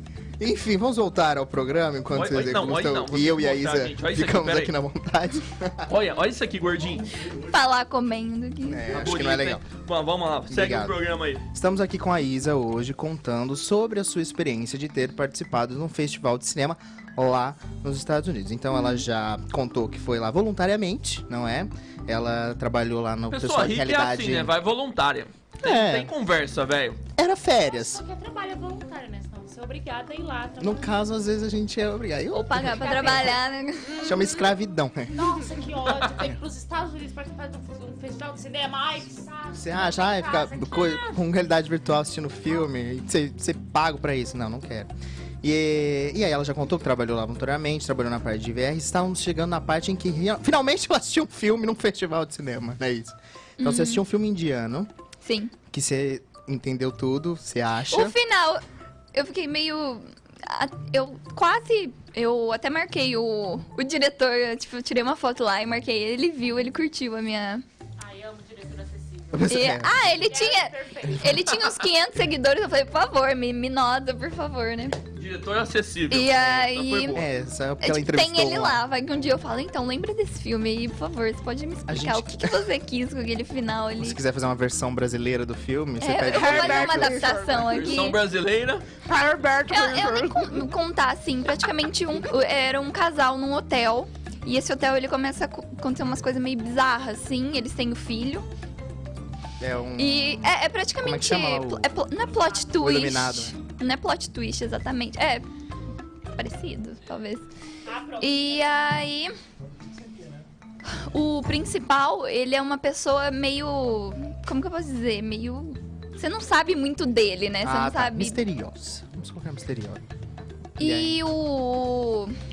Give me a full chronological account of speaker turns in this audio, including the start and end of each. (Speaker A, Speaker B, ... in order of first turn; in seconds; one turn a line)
Speaker A: 0.4-5.9
Speaker B: 2.1-4.7
Speaker B: 5.9-7.1
Speaker C: 7.3-9.0
Speaker A: 8.7-9.7
Speaker B: 8.9-11.4
Speaker A: 10.5-24.6
Speaker C: 18.7-19.0
Speaker B: 23.3-27.0
Speaker A: 25.6-26.1
Speaker A: 27.2-28.0
Speaker D: 27.7-31.0
Speaker A: 30.6-33.4
Speaker C: 32.3-34.2
Speaker D: 32.8-33.3
Speaker E: 33.9-34.4
Speaker A: 34.0-35.3
Speaker D: 35.1-41.2
Speaker A: 39.5-54.9
Speaker C: 53.6-54.0
Speaker C: 55.2-55.5
Speaker A: 55.7-58.2
Speaker C: 57.9-58.6
Speaker C: 59.1-67.6
Speaker D: 68.0-69.7
Speaker A: 69.3-70.2
Speaker C: 69.5-75.0
Speaker D: 70.2-71.4
Speaker B: 75.2-77.2
Speaker C: 76.1-77.2
Speaker A: 77.2-78.8
Speaker C: 77.8-84.2
Speaker A: 81.9-82.7
Speaker A: 84.0-87.6
Speaker C: 86.0-88.2
Speaker E: 86.3-87.8
Speaker B: 87.7-88.8
Speaker E: 89.0-90.7
Speaker C: 89.7-98.5
Speaker A: 99.6-101.9
Speaker C: 100.0-105.5
Speaker D: 102.3-102.8
Speaker A: 102.8-103.5
Speaker C: 106.3-107.5
Speaker D: 107.9-108.9
Speaker C: 108.2-109.3
Speaker C: 110.9-118.4
Speaker A: 117.6-120.0
Speaker C: 120.8-122.3
Speaker A: 120.8-121.2